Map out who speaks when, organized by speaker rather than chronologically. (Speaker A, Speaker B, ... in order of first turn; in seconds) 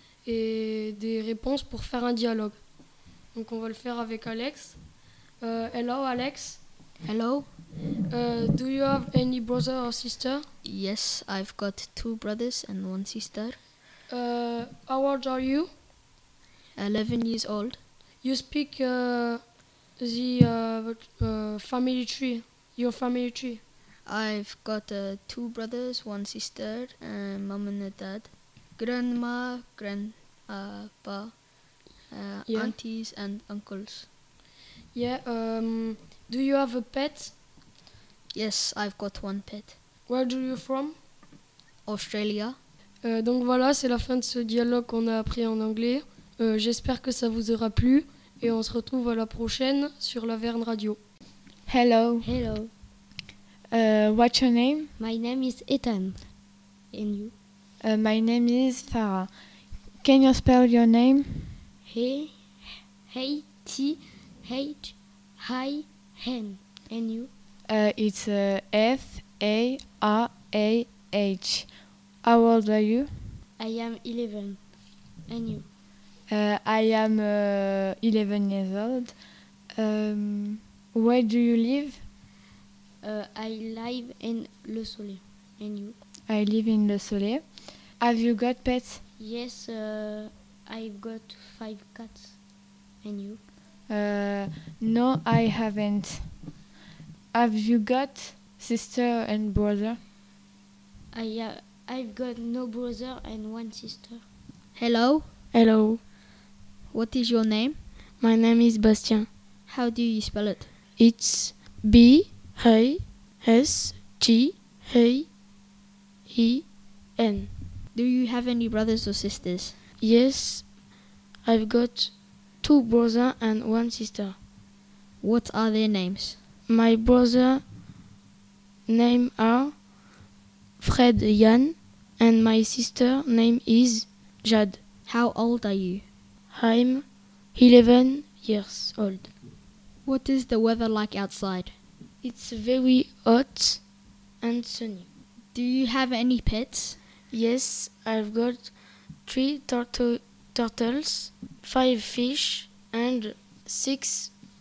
Speaker A: 0.2-2.6, 3.3-4.8, 5.4-6.6, 8.1-10.4, 14.1-15.7, 18.2-19.4, 20.0-23.6, 32.5-32.8, 34.9-37.4, 40.1-41.0, 43.0-51.0
Speaker B: 7.0-7.5, 10.6-13.6, 16.8-17.8, 24.1-31.4, 32.1-34.1, 38.3-39.8, 41.9-42.6, 104.8-105.3, 106.9-107.8, 109.7-110.7, 117.9-119.8, 125.2-126.4, 135.1-136.1, 140.1-141.8, 145.5-147.0
Speaker C: 51.7-52.4, 53.7-54.9, 57.8-59.4, 60.0-61.5, 67.7-71.7, 72.2-73.3, 76.3-79.2, 79.8-82.0, 86.3-87.5, 88.0-89.0, 93.9-96.3, 97.3-100.0
Speaker D: 52.2-52.7, 55.0-56.2, 56.9-57.3, 61.9-67.3, 73.6-74.6, 75.3-75.7, 83.0-86.0, 89.2-92.3, 93.0-93.4, 101.1-104.2
Speaker E: 105.5-106.0, 108.2-109.3, 111.0-115.3, 116.3-117.5, 120.0-120.7, 121.4-124.4, 126.7-127.6, 128.9-129.8, 130.8-134.8, 136.5-139.3, 142.2-143.8, 144.4-145.1, 147.3-154.3